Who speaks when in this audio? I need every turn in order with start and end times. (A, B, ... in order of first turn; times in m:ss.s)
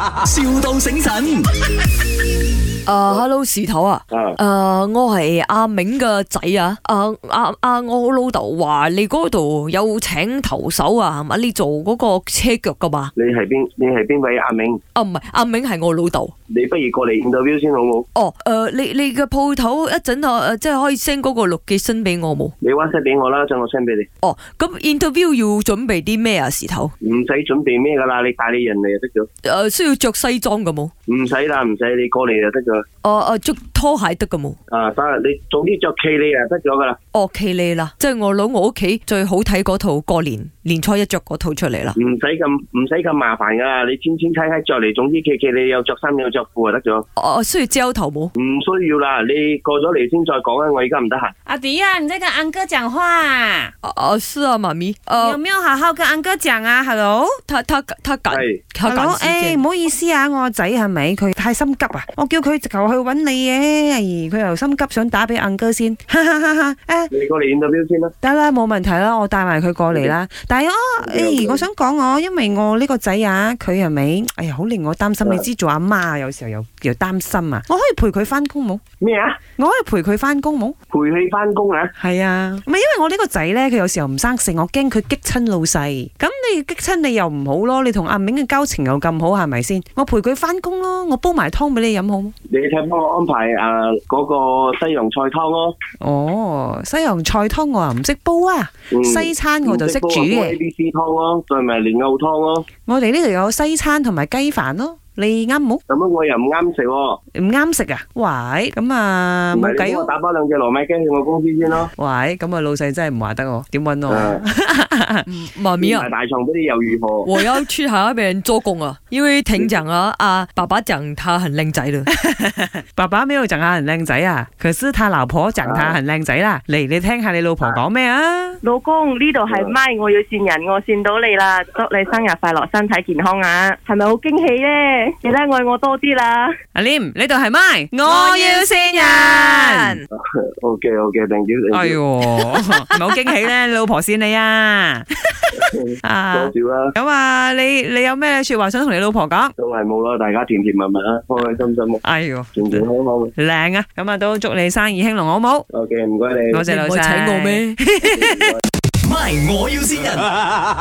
0:00.2-0:01.4 A
0:02.8-0:13.1 B
0:04.1-0:04.4 C
0:13.2-0:14.8 C
0:14.9-0:16.3 B
0:16.5-0:18.0 C
0:18.1-0:22.5 B
0:22.6-0:24.1 C
0:24.2-0:26.9 B
0:27.0-0:29.3 C
0:29.4-0:30.9 B
0:31.1-0:32.8 C
0:33.0-0:34.6 B
0:34.7-0:37.0 C
0:37.1-0:42.0 B
0:42.0-0:47.0 C
0:47.2-0:48.3 B
0:48.4-0:51.3 C
0:51.4-0:53.7 D
0:53.8-0:55.4 B
0:55.2-0:57.4 D
0:57.4-0:59.6 B
0:58.3-0:58.6 C
0:58.8-1:07.1 D
1:07.1-1:08.1 C
1:08.2-1:18.8 D
1:11.0-1:11.6 C
1:19.0-1:19.4 C
1:19.6-1:20.8 D
1:20.9-1:21.9 C
1:22.0-1:32.3 D
1:32.5-1:35.7 C
1:36.0-1:40.6 D
1:38.9-1:42.6 C
1:42.8-1:45.8 D
1:45.9-1:47.2 C
1:47.3-1:50.1 D
1:49.5-1:51.9 C
1:52.0-1:55.3 D
1:54.1-1:54.4 C
1:55.3-1:56.1 B
1:55.8-1:57.3 C
1:57.2-2:02.1 B
2:02.2-2:08.6 D
2:05.6-2:06.0 C
2:08.6-2:16.5 E
2:09.4-2:09.8 C
2:16.7-2:20.0 D
2:18.0-2:20.0 B
2:20.1-2:22.0 C
2:21.7-2:29.5 D
2:25.6-2:26.9 C
2:29.6-2:32.0 C
2:32.0-2:32.8 D
2:32.5-2:33.3 C
2:33.4-2:35.7 D
2:35.7-2:36.6 C
2:36.5-2:38.4 D
2:36.7-2:37.8 B
2:38.0-2:38.6 C
2:39.0-2:40.3 A